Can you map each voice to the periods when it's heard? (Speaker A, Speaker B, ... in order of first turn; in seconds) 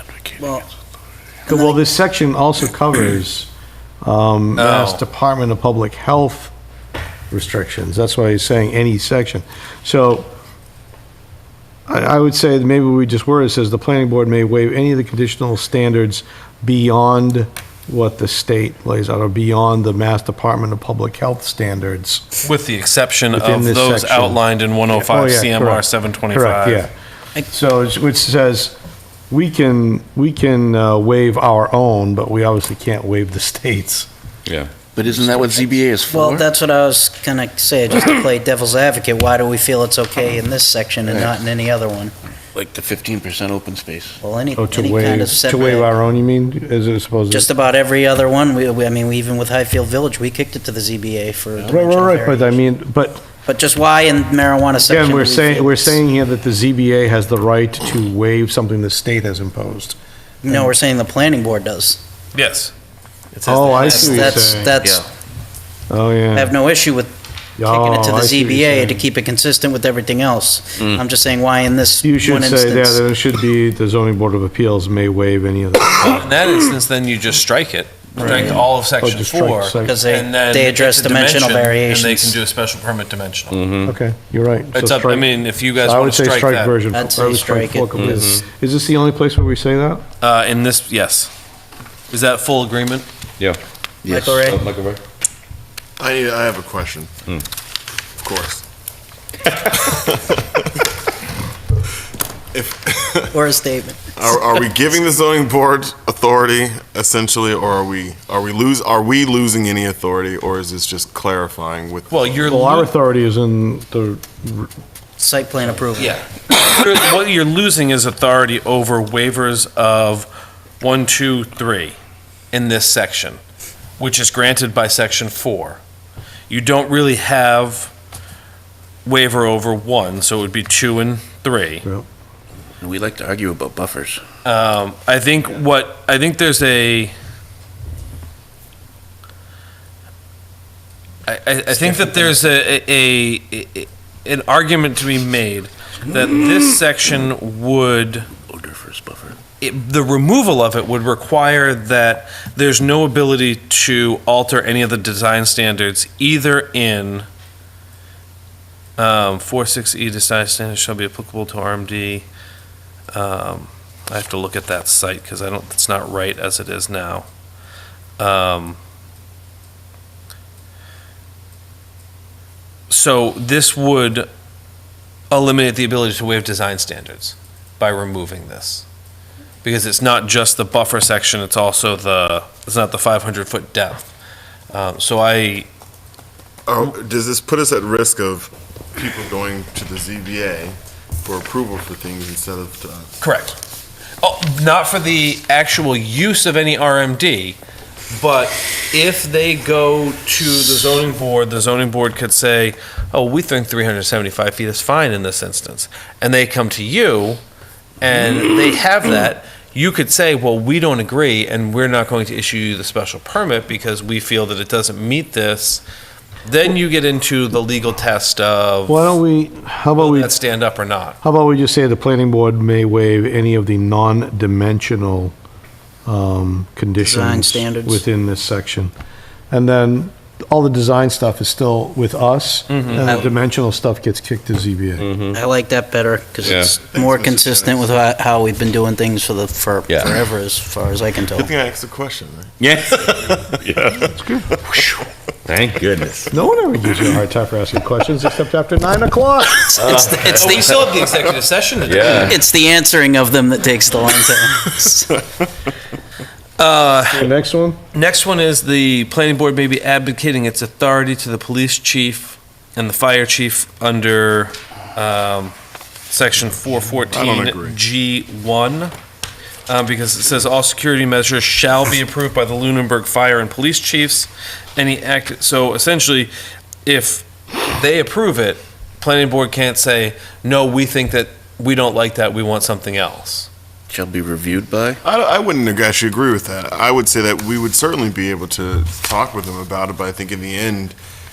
Speaker A: 0.4-0.6, 1.5-1.8, 36.1-42.1, 44.2-45.9, 47.3-52.6, 53.4-56.0, 60.4-62.0, 63.8-65.0, 66.3-73.0, 78.2-78.6, 79.8-82.4, 86.9-87.9, 94.1-94.6, 103.3-104.2, 115.2-116.2, 227.0-228.0, 235.3-241.5, 249.7-250.8, 252.1-255.2
Speaker B: 1.5-3.5, 4.0-6.5, 7.3-10.3, 11.9-22.2, 23.3-26.9, 27.5-28.7, 29.3-34.1, 44.5-47.5, 51.7-53.2, 54.9-60.0, 63.5-64.8, 65.9-66.5, 67.6-69.0, 72.0-76.2, 78.2-80.0, 83.8-90.0, 112.4-114.7, 218.9-220.4, 221.2-225.3, 226.1-228.9, 229.5-235.1, 244.0-244.5, 246.3-249.7, 257.1-257.8
Speaker C: 4.6-5.0, 22.4-26.9, 62.3-62.7, 63.3-64.5, 76.0-83.6, 84.7-86.8, 90.2-91.3, 92.1-93.0, 112.1-112.9, 116.0-120.3, 120.8-122.0, 122.5-123.4, 124.0-125.8, 126.5-127.9, 129.0-131.8, 134.4-137.1, 141.2-148.3, 149.6-157.3, 159.0-162.2, 163.1-167.3, 168.2-168.8, 172.9-174.3, 175.3-178.8, 179.6-184.1, 184.7-185.7, 193.2-193.6, 194.2-197.6, 198.1-207.4, 208.0-215.8, 216.4-219.1, 220.0-221.2, 232.7-233.2, 250.1-252.4, 256.6-257.3, 257.9-265.5, 266.1-268.9, 269.7-276.3, 276.8-283.5
Speaker D: 34.5-34.7, 83.5-83.9, 87.9-88.4, 94.4-95.0, 235.0-235.4, 236.4-236.8, 239.9-240.1, 242.6-244.1, 244.7-246.3, 249.8-250.6, 251.8-252.4
Speaker E: 34.9-36.5, 41.0-41.3, 42.5-44.2, 64.8-65.1, 94.0-94.5, 132.8-134.2, 141.7-142.2, 148.5-149.4, 283.9-285.0
Speaker F: 96.0-97.2, 98.2-98.6, 99.6-100.4, 102.5-103.3, 104.2-112.4, 186.7-193.2, 236.7-237.9, 241.3-243.8, 267.1-267.8, 285.0-290.9